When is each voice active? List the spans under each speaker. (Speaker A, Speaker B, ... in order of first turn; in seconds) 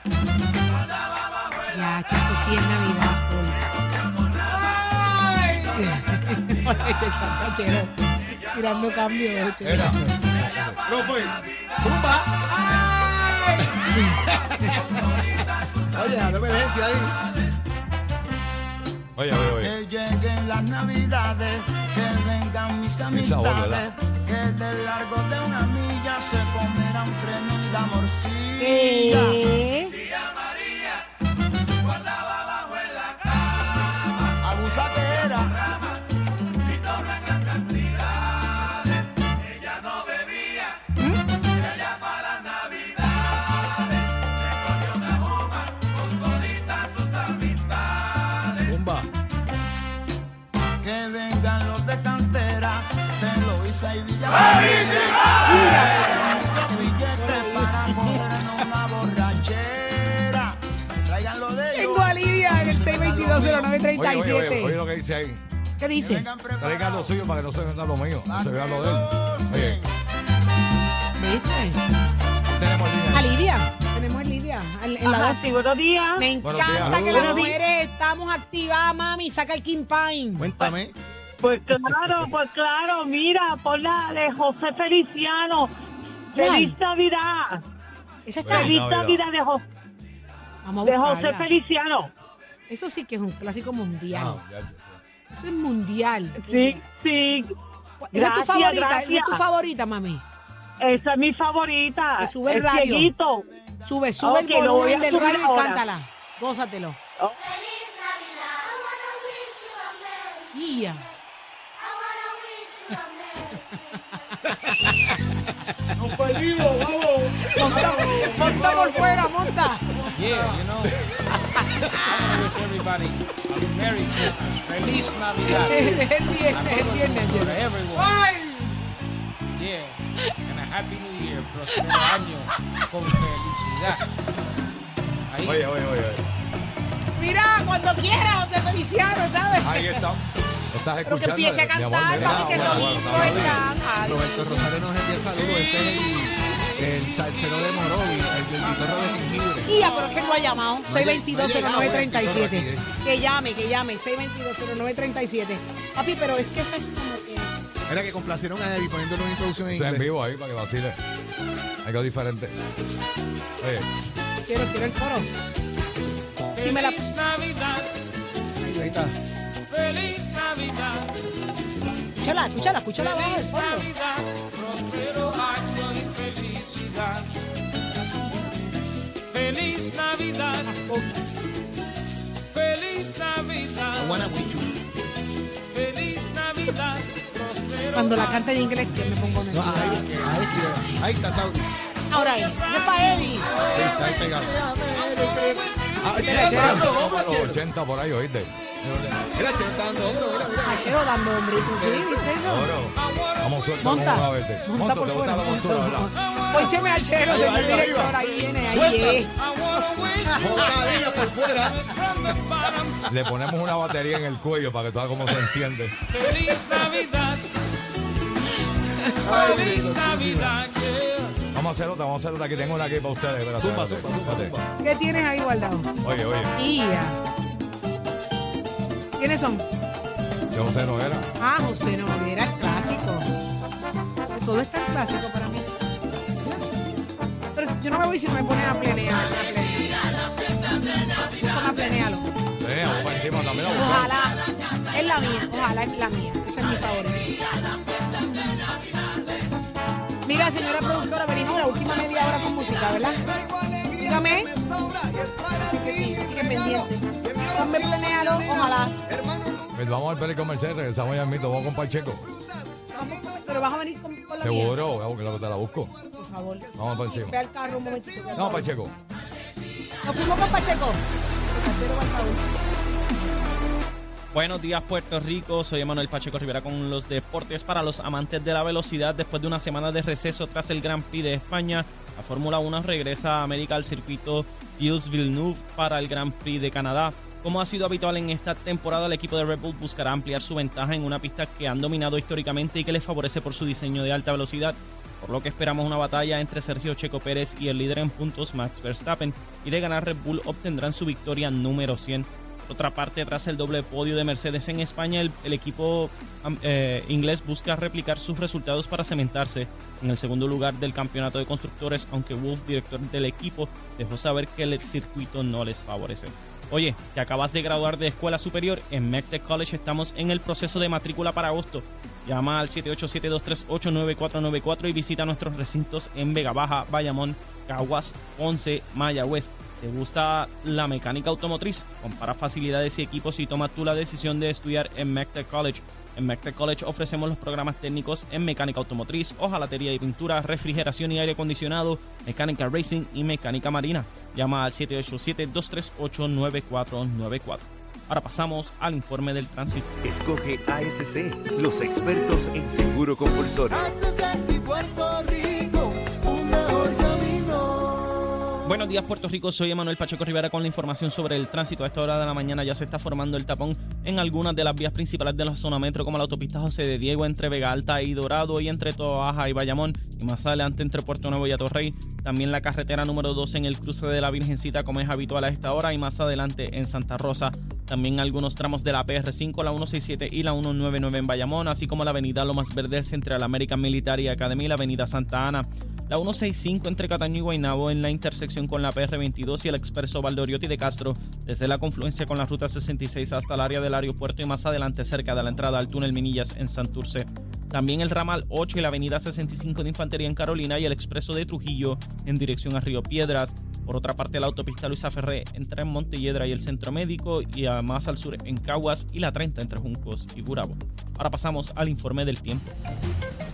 Speaker A: 1.7-3.7, 5.6-10.0, 28.6-29.9, 55.4-58.2, 61.7-64.8, 65.8-66.3, 71.2-71.8, 73.1-75.4, 76.2-80.7, 86.3-86.8, 88.3-88.8, 90.6-91.5, 92.7-94.4, 95.3-96.8, 98.0-100.2, 102.2-103.1, 103.8-107.0, 110.5-111.0, 114.5-115.1, 117.4-120.0, 121.5-122.2, 125.5-128.6, 131.7-132.2, 137.2-140.1, 141.0-144.8, 149.7-157.5, 164.4-165.3, 166.6-167.0, 168.6-168.9, 172.2-173.9, 180.7-181.1, 187.9-190.1, 192.1-193.5, 196.1-196.9, 200.6-202.7, 203.8-209.3, 224.8-225.9, 226.5-227.2, 229.2-229.6, 231.4-233.3, 234.2-235.7, 237.5-240.0, 241.0-242.3, 243.7-247.3, 250.2-253.2, 254.0-254.5, 255.6-258.9, 262.9-264.8, 266.1-268.7, 270.0-272.4
Speaker B: 9.6-10.0, 10.8-11.4, 13.3-13.6, 19.1-19.7, 23.1-23.8, 63.9-65.4, 66.6-69.8, 72.5-73.3, 76.4-77.5, 88.4-89.2, 94.1-95.0, 135.4-136.2, 139.6-143.6, 159.7-161.0, 161.8-162.5, 163.6-163.9, 196.3-199.3, 202.4-206.1, 213.1-216.0, 221.5-224.6, 226.0-226.5, 230.5-231.3, 242.6-244.1, 259.7-262.2, 264.4-265.9, 266.8-267.4, 268.3-268.9
Speaker C: 10.1-10.8, 11.8-12.5, 15.8-17.1, 48.6-49.1, 80.4-81.0, 142.1-149.8, 150.8-152.9, 157.9-160.1, 168.8-169.1, 183.9-184.8, 189.5-191.7, 193.7-197.6, 199.3-201.0, 201.5-202.3, 207.2-209.2, 210.3-211.9, 219.2-220.5, 223.6-224.7, 253.5-253.9, 254.5-255.4, 256.7-259.6
Speaker D: 19.6-29.4, 34.4-35.7, 50.8-63.9, 65.9-67.2, 68.2-69.9, 253.6-256.7, 257.3-258.5, 353.7-358.7
Speaker E: 75.0-76.3, 77.1-77.6, 81.4-85.7, 86.3-87.6, 88.5-89.6, 90.8-92.1, 96.3-97.5, 98.1-99.4, 100.8-103.5, 104.2-105.8
Speaker F: 116.4-116.8, 118.5-118.9, 120.1-121.0, 121.9-128.1, 129.5-134.1, 135.3-135.7, 145.2-150.4, 166.5-167.9, 169.7-171.1, 172.9-177.3, 179.3-180.8, 182.5-184.3, 185.7-189.3, 192.1-196.7, 202.9-203.9, 206.3-206.9, 209.3-213.1, 216.1-217.4, 219.1-221.4
Speaker G: 274.3-349.9, 358.6-412.7
Speaker H: 350.0-353.9